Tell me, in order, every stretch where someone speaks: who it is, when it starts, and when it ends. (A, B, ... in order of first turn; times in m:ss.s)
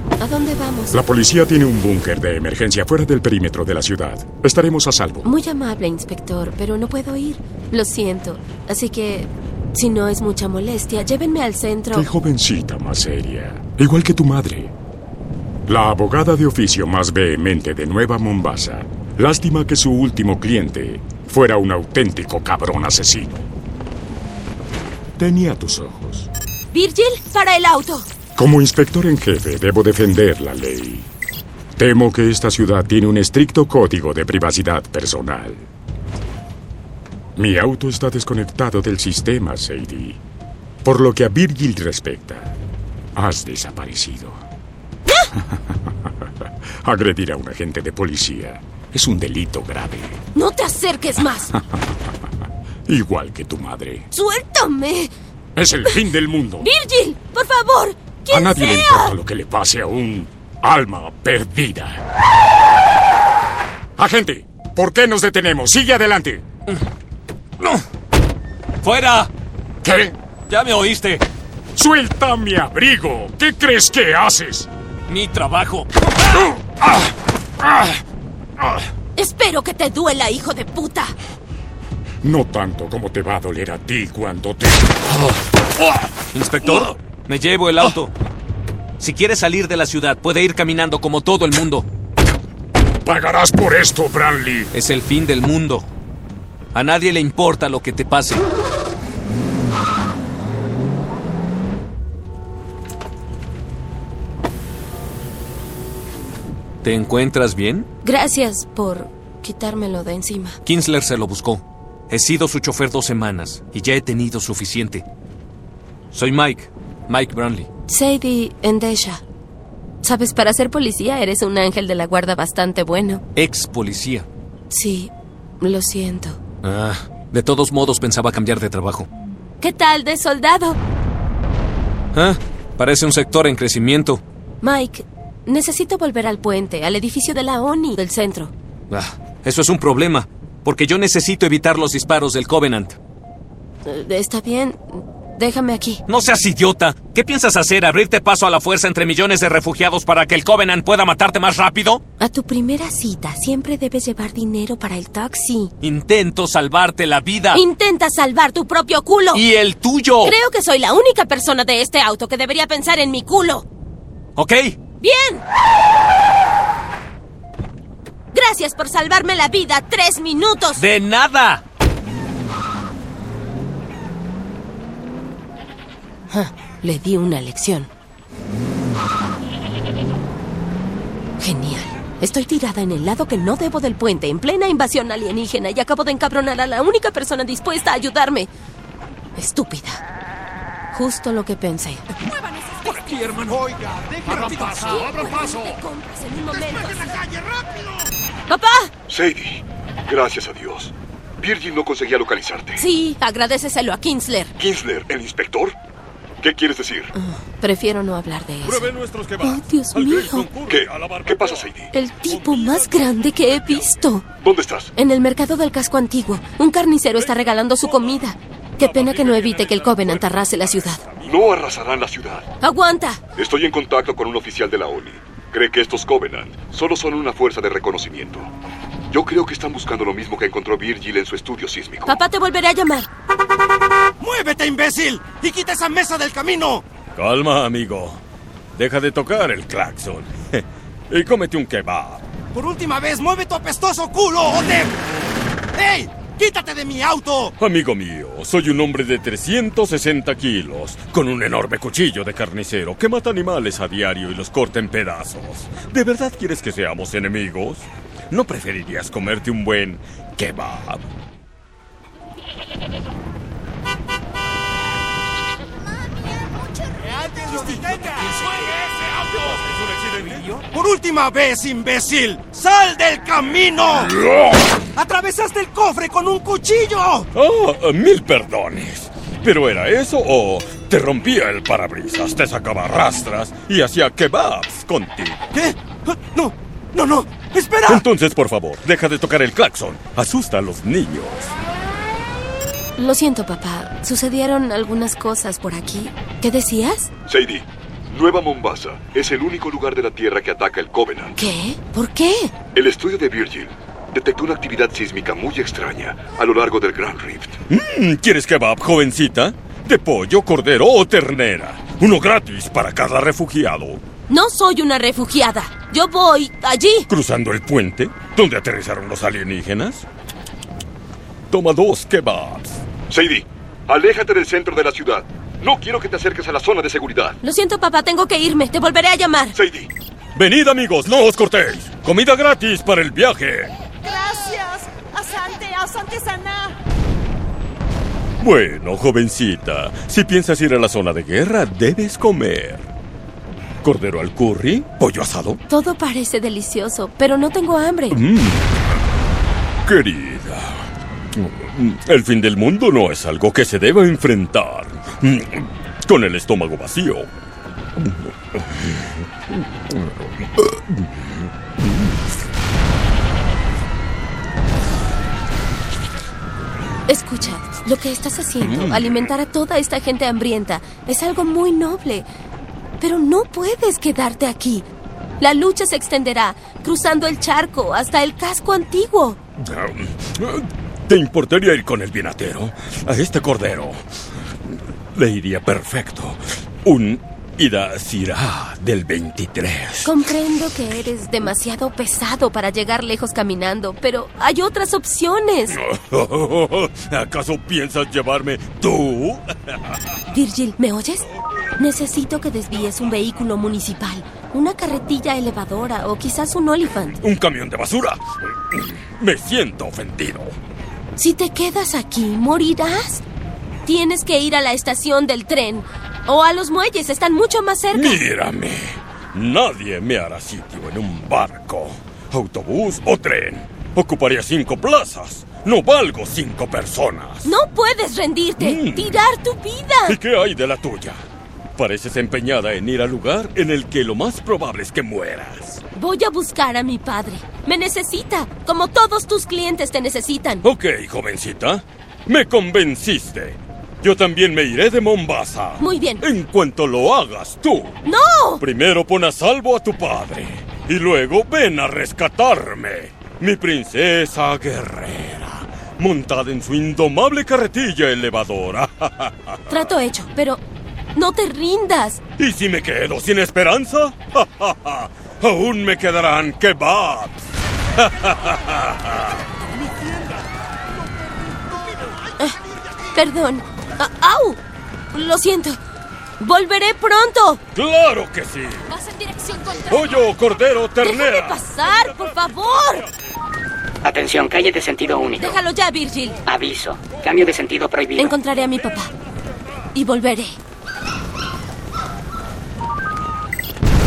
0:00.2-0:00.9 A
0:00.9-0:05.3 B
0:05.2-0:12.1 A
0:11.9-0:14.7 B
0:15.7-0:23.5 B
0:25.2-0:26.3 B
0:26.7-0:28.0 A
0:28.4-0:31.1 B
0:31.8-0:35.7 B
0:37.4-0:40.2 B
0:40.8-0:42.5 B
0:43.1-0:44.4 B
0:45.3-0:46.3 B
0:46.8-0:50.2 B
0:50.3-0:51.5 A
0:51.5-0:52.2 B
0:52.8-0:54.1 B
0:54.1-0:55.1 A
0:55.6-0:56.7 B
0:56.6-0:59.1 A
0:58.3-1:02.0 B
1:04.0-1:06.4 B
1:08.8-1:09.3 C
1:09.8-1:10.1 B
1:10.5-1:11.2 C
1:11.7-1:14.7 B
1:15.1-1:15.9 C
1:16.8-1:17.1 B
1:17.6-1:18.0 B
1:19.2-1:21.1 A
1:22.2-1:25.1 B
1:26.3-1:28.1 C
1:29.0-1:31.8 C
1:33.0-1:34.7 B
1:34.7-1:35.8 C
1:36.7-1:38.4 C
1:46.8-1:47.9 C
1:48.0-1:50.6 A
1:50.6-1:55.0 C
1:56.1-1:57.7 C
1:57.9-1:59.2 A
2:00.0-2:03.2 A
2:03.4-2:04.3 C
2:04.7-2:06.4 A
2:06.6-2:09.1 C
2:09.6-2:10.8 A
2:12.1-2:14.2 C
2:14.6-2:18.5 A
2:18.9-2:23.0 C
2:23.8-2:26.0 A
2:26.1-2:32.0 C
2:32.2-2:35.7 A
2:35.8-2:37.6 C
2:37.5-2:39.4 A
2:39.3-2:40.4 C
2:40.2-2:43.6 A
2:44.4-2:44.8 C
2:45.0-2:45.4 A
2:48.3-2:50.8 A
2:50.8-2:51.6 C
2:56.3-2:57.9 A
3:01.4-3:08.5 A
3:09.4-3:10.0 A
3:10.9-3:12.0 A
3:12.2-3:13.4 D
3:12.8-3:15.8 E
3:14.3-3:17.2 A
3:16.5-3:18.1 E
3:18.5-3:18.9 A
3:19.1-3:22.8 F
3:22.8-3:24.5 A
3:24.6-3:25.7 F
3:26.4-3:27.1 F
3:27.1-3:28.8 A
3:28.6-3:31.7 G
3:29.4-3:30.5 A
3:30.7-3:31.9 F
3:31.9-3:34.2 A
3:32.2-3:33.9 G
3:34.4-3:34.9 F
3:35.0-3:41.0 A
3:37.2-3:41.6 G
3:41.2-3:42.5 F
3:42.6-3:43.2 A
3:43.4-3:48.5 F
3:49.1-3:52.2 F
3:52.1-3:53.1 A
3:54.2-3:56.8 E
3:57.2-3:58.2 G
3:58.8-4:02.2 G
4:02.5-4:05.0 E
4:05.7-4:07.5 E
4:07.6-4:21.0 G
4:27.0-4:29.6 E
4:27.5-4:30.5 G
4:30.4-4:34.1 E
4:33.9-4:34.6 G
4:34.9-4:37.3 E
4:37.3-4:45.4 G
4:45.5-4:48.0 E
4:47.8-4:51.5 G
4:53.0-4:57.1 A
4:57.3-5:01.3 F
5:01.4-5:02.5 A
5:02.7-5:07.6 F
5:07.7-5:14.0 G
5:14.3-5:17.1 A
5:17.1-5:20.0 G
5:21.5-5:22.8 G
5:23.1-5:27.4 F
5:27.4-5:29.5 A
5:29.5-5:29.9 F
5:30.4-5:33.7 G
5:34.0-5:36.6 E
5:38.4-5:42.9 G
5:43.8-5:45.6 G
5:45.7-5:48.2 A
5:48.1-5:48.8 G
5:49.8-5:57.3 G
5:58.0-5:59.0 G
6:00.6-6:01.1 G
6:07.1-6:12.3 A
6:08.6-6:09.2 G
6:13.0-6:14.8 A
6:15.4-6:19.4 A
6:19.6-6:24.0 G
6:25.2-6:30.1 G
6:30.0-6:35.8 A
6:35.7-6:39.8 G
6:40.3-6:41.2 A
6:41.8-6:47.2 A
6:47.2-6:50.5 G
6:51.2-6:53.2 A
6:53.8-6:58.2 A
6:57.9-7:07.5 G
7:07.4-7:10.2 A
7:08.6-7:09.2 G
7:10.1-7:11.2 G
7:11.8-7:15.8 G
7:15.9-7:20.6 A
7:20.6-7:28.0 G
7:25.8-7:26.2 A
7:28.0-7:28.6 A
7:28.6-7:39.6 G
7:39.7-7:40.6 A
7:41.1-7:42.2 A
7:42.4-7:47.4 G
7:48.0-7:49.4 G
7:49.7-7:53.1 E
7:53.1-7:54.6 A
7:55.1-7:55.8 A
7:56.4-7:57.6 A
7:57.7-7:58.9 G
7:58.9-8:00.3 D
7:59.9-8:01.6 G
8:01.0-8:03.0 A
8:04.0-8:05.6 H
8:05.4-8:06.4 A
8:06.4-8:08.4 H
8:08.2-8:09.1 A
8:09.9-8:10.6 A